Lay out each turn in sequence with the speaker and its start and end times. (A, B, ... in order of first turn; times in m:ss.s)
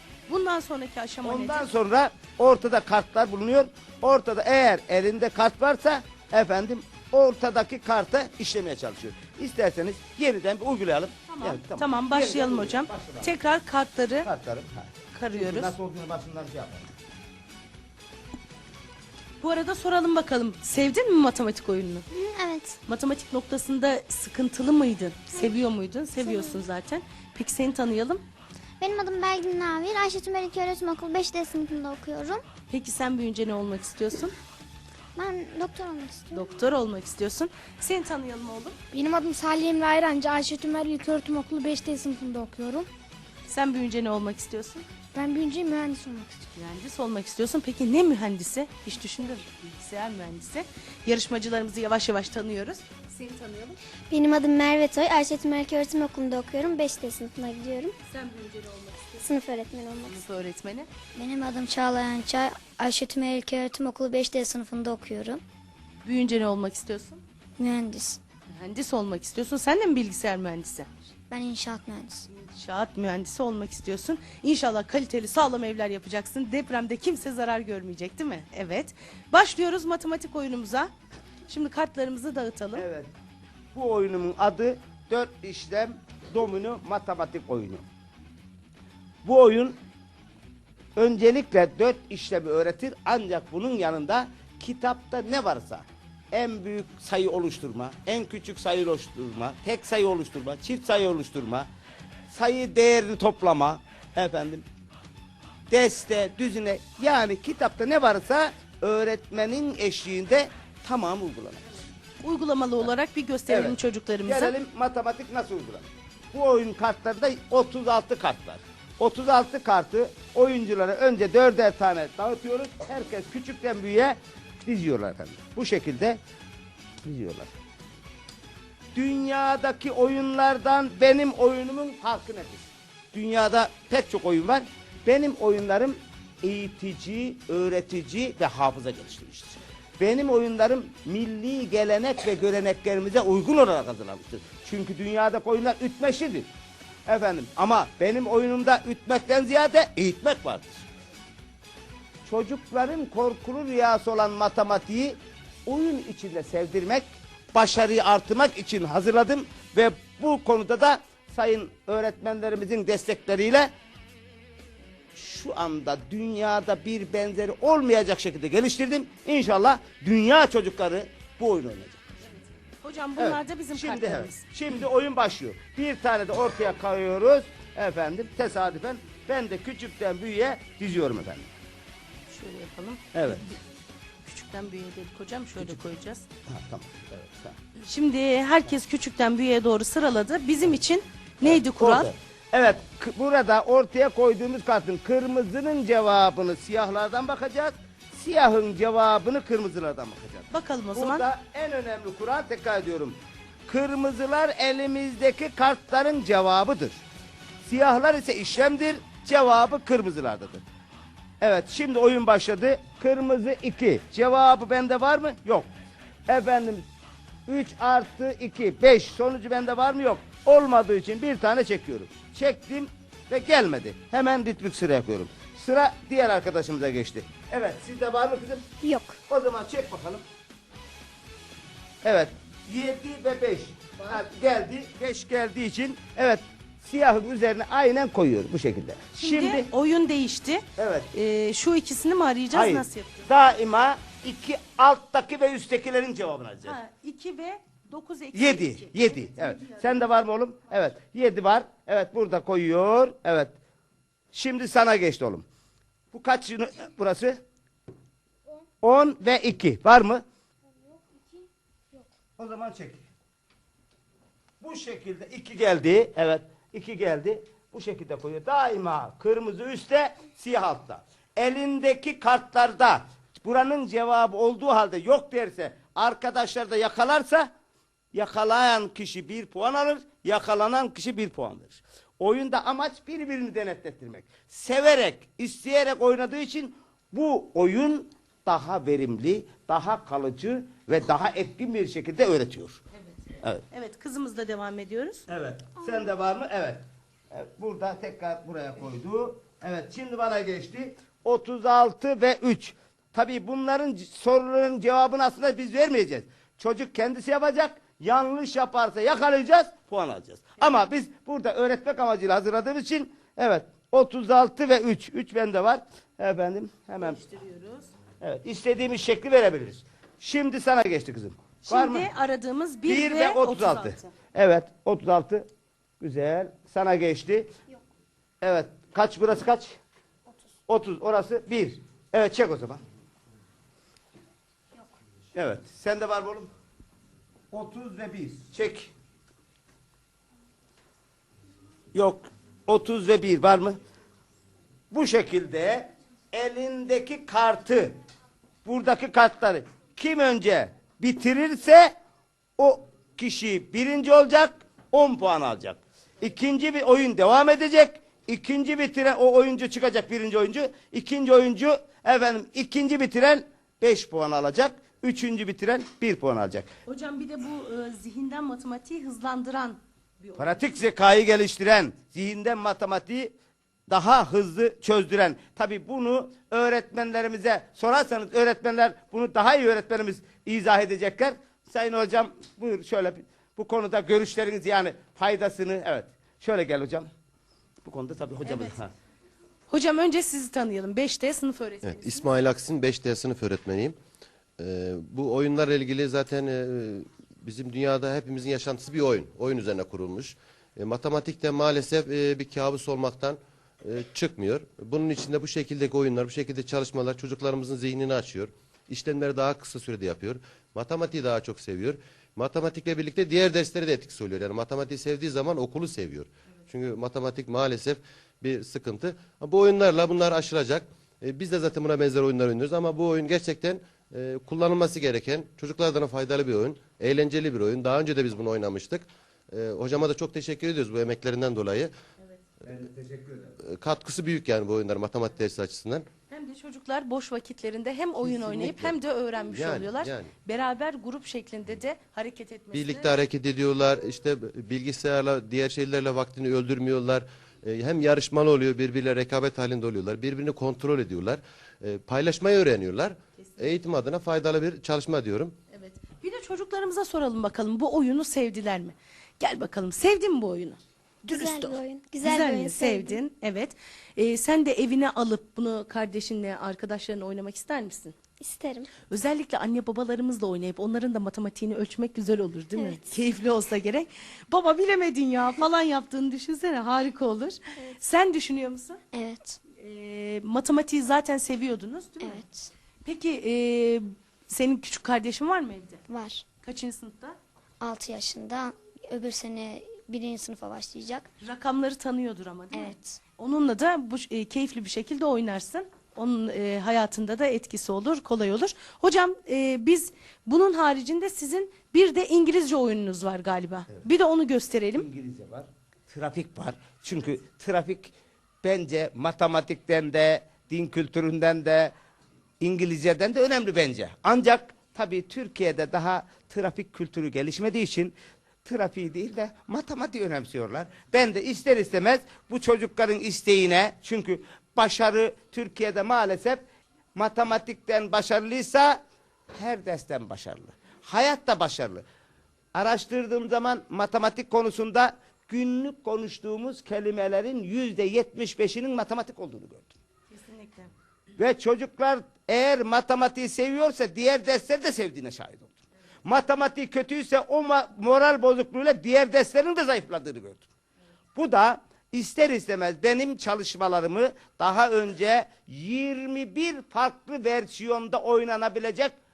0:00.3-0:01.7 A
0:01.2-0:13.3 B
0:11.3-0:14.3 A
0:14.2-0:16.9 B
0:15.1-0:15.7 A
0:19.4-0:22.0 A
0:22.1-0:22.8 C
0:22.8-0:28.2 A
0:26.2-0:26.6 C
0:28.8-0:32.4 C
0:32.7-0:34.3 A
0:35.1-0:36.5 C
0:36.3-0:38.8 A
0:38.9-0:42.9 D
0:43.5-0:44.8 A
0:45.1-0:46.3 D
0:46.4-0:53.8 A
0:54.1-0:58.0 C
0:58.1-0:59.3 A
0:59.2-1:00.2 C
1:00.0-1:00.9 A
1:01.1-1:05.4 C
1:06.0-1:07.2 A
1:07.6-1:08.2 C
1:08.5-1:10.9 A
1:11.3-1:12.3 C
1:12.3-1:20.9 A
1:21.5-1:22.8 A
1:22.7-1:23.1 B
1:23.7-1:27.8 B
1:29.2-1:29.8 B
1:31.0-1:41.7 B
1:42.3-1:44.6 B
1:45.7-1:51.8 B
1:52.2-1:54.5 A
1:53.5-2:06.2 B
2:07.0-2:07.5 B
2:08.9-2:26.5 B
2:27.0-2:30.8 B
2:32.2-2:43.7 B
2:45.1-2:52.1 B
2:52.8-2:54.4 A
2:53.2-3:01.5 B
3:02.3-3:03.6 A
3:03.1-3:03.4 B
3:04.2-3:06.2 A
3:06.5-3:07.6 B
3:07.8-3:12.1 A
3:11.4-3:27.0 B
3:20.5-3:21.2 A
3:27.6-3:30.6 B
3:31.4-3:35.7 B
3:36.3-3:36.8 B
3:37.5-3:48.7 B
3:48.8-3:49.2 C
3:49.3-3:50.2 B
3:52.0-3:59.7 B
3:59.2-4:03.3 A
4:00.8-4:01.1 B
4:02.5-4:06.8 B
4:06.6-4:09.9 A
4:08.3-4:13.5 B
4:14.3-4:15.4 B
4:16.1-4:17.4 B
4:18.8-4:20.2 B
4:22.4-4:23.0 B
4:24.6-4:37.5 B
4:38.1-4:52.8 B
4:53.7-4:55.2 A
4:55.3-5:17.2 B
5:17.0-5:17.9 A
5:18.2-5:22.1 B
5:21.6-5:24.1 A
5:22.8-5:25.5 B
5:26.0-5:27.5 B
5:28.4-5:29.8 B
5:30.7-5:32.8 B
5:35.3-5:36.5 B
5:37.5-5:38.9 B
5:41.9-5:43.8 B
5:44.9-5:48.0 B
5:48.6-5:51.9 B
5:52.6-6:06.7 B
6:06.8-6:10.6 A
6:10.4-6:13.3 B
6:13.9-6:27.1 B
6:27.8-6:28.9 B
6:28.4-6:28.8 A
6:29.7-6:32.3 A
6:31.8-6:34.0 E
6:34.6-7:11.9 E
7:12.6-7:13.6 B
7:13.6-7:16.0 E
7:16.3-7:23.2 A
7:18.6-7:19.0 E
7:19.5-7:20.3 E
7:22.7-7:35.5 E
7:33.4-7:33.7 A
7:35.7-7:40.8 A
7:41.2-7:43.2 C
7:41.3-7:48.1 A
7:48.4-7:48.9 C
7:49.0-7:59.0 A
7:52.8-7:53.0 C
7:59.1-7:59.6 C
7:59.8-8:02.4 A
8:02.2-8:02.7 C
8:03.0-8:06.0 A
8:06.1-8:06.4 C
8:06.6-8:07.4 A
8:07.8-8:11.3 C
8:11.4-8:25.0 A
8:12.7-8:13.2 C
8:24.9-8:31.9 B
8:32.6-8:46.6 B
8:47.1-8:49.0 B
8:49.5-8:52.0 B
8:52.7-8:59.9 B
9:00.3-9:00.9 A
9:01.4-9:10.7 B
9:11.4-9:19.2 B